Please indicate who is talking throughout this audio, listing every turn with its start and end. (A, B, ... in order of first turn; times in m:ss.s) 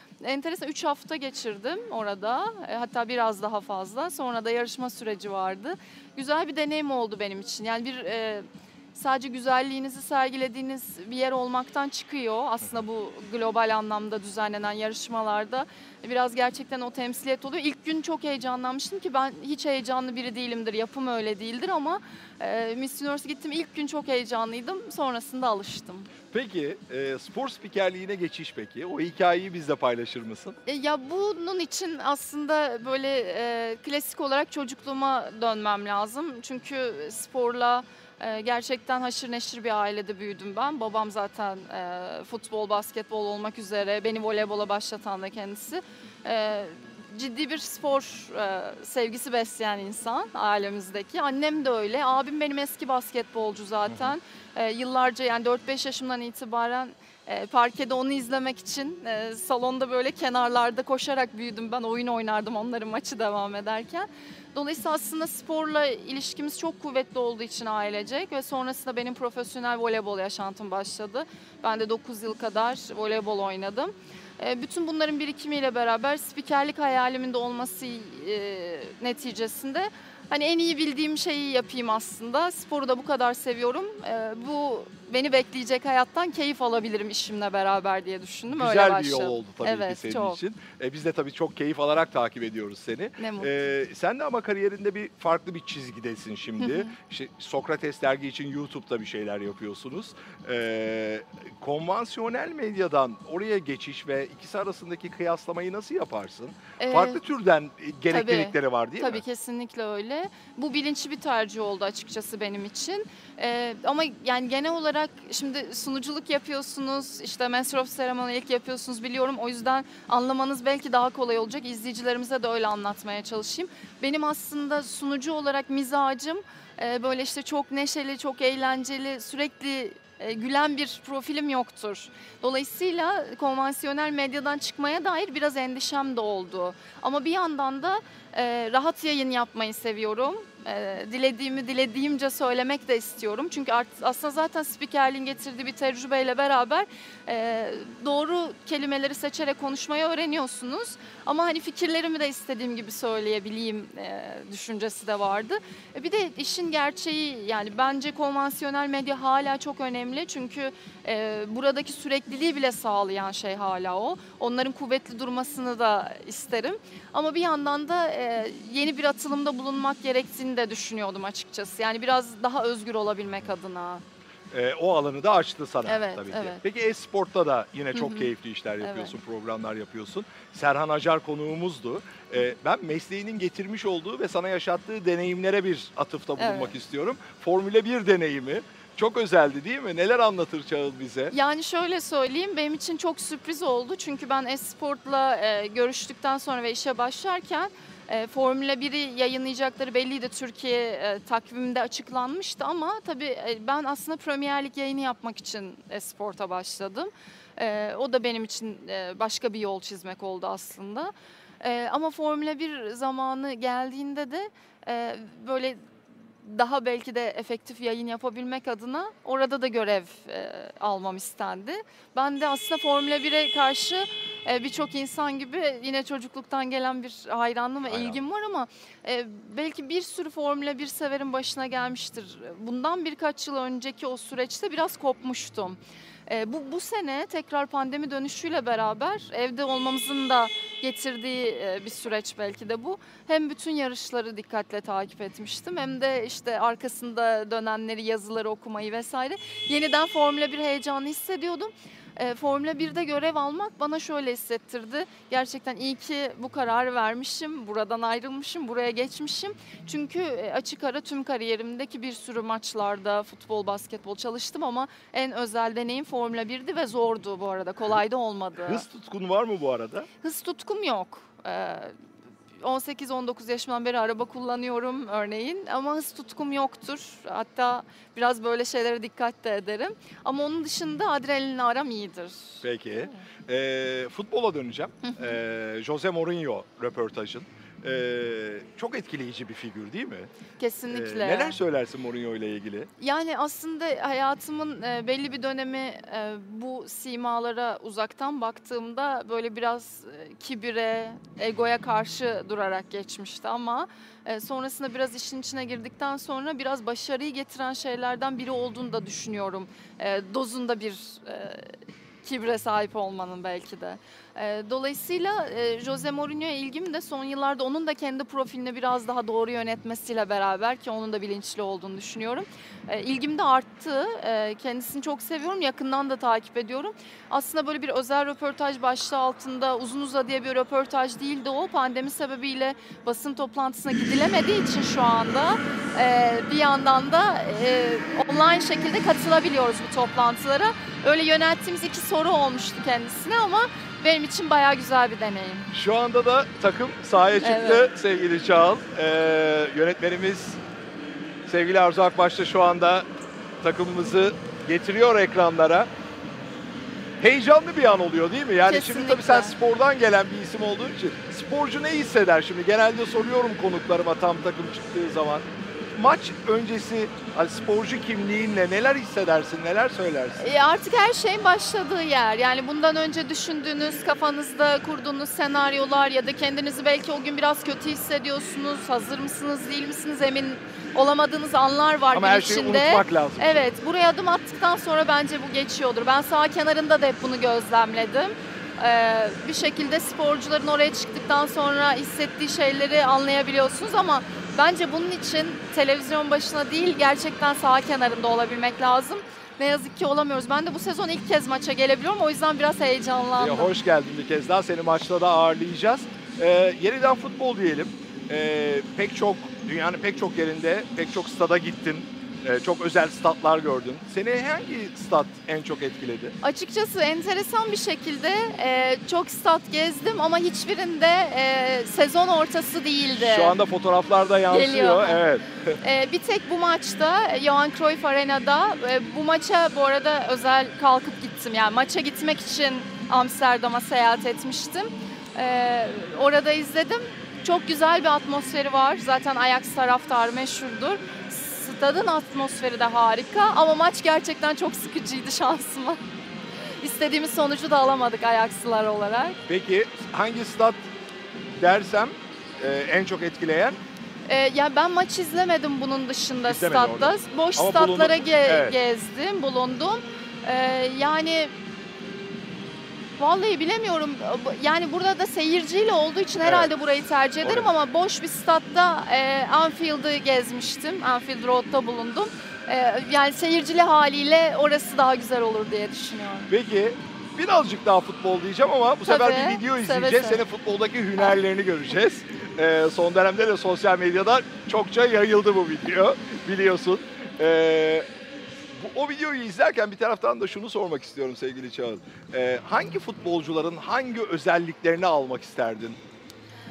0:00.2-0:26.1 A
0:26.3-0:30.5 B
0:30.6-1:30.4 A
0:53.9-0:54.1 B
1:28.5-1:49.2 B
1:33.2-1:33.7 A
1:36.6-1:36.9 A
1:46.8-1:47.2 A
1:48.1-2:54.0 A
2:54.5-3:11.3 B
2:55.8-2:56.6 A
2:57.9-2:58.3 A
2:58.8-2:59.1 A
3:06.4-3:06.7 A
3:11.3-3:35.8 A
3:36.4-4:28.8 A
3:47.8-3:48.2 B
4:28.6-4:30.1 B
4:30.2-4:31.9 A
4:32.6-4:43.2 A
4:42.6-4:50.3 B
4:45.0-4:45.4 A
4:50.6-4:51.6 A
4:50.9-4:52.9 B
4:53.0-5:11.7 A
5:12.2-5:45.7 A
5:45.7-5:50.6 B
5:47.4-5:47.9 A
5:51.5-5:53.1 B
5:53.6-5:55.9 B
5:57.2-6:10.4 B
5:58.6-5:59.6 A
6:10.4-6:43.7 A
6:22.1-6:23.6 B
6:43.4-6:56.3 B
6:56.4-7:03.6 A
7:03.2-7:05.8 B
7:04.5-7:05.2 A
7:05.8-7:26.0 A
7:26.8-7:29.4 A
7:29.4-7:30.9 B
7:31.6-7:33.8 B
7:34.3-7:41.5 A
7:36.4-7:38.8 B
7:43.2-7:56.5 A
7:46.4-7:46.7 B
7:47.4-7:47.7 B
7:56.5-8:08.0 B
7:59.0-8:00.4 A
8:08.8-8:16.0 B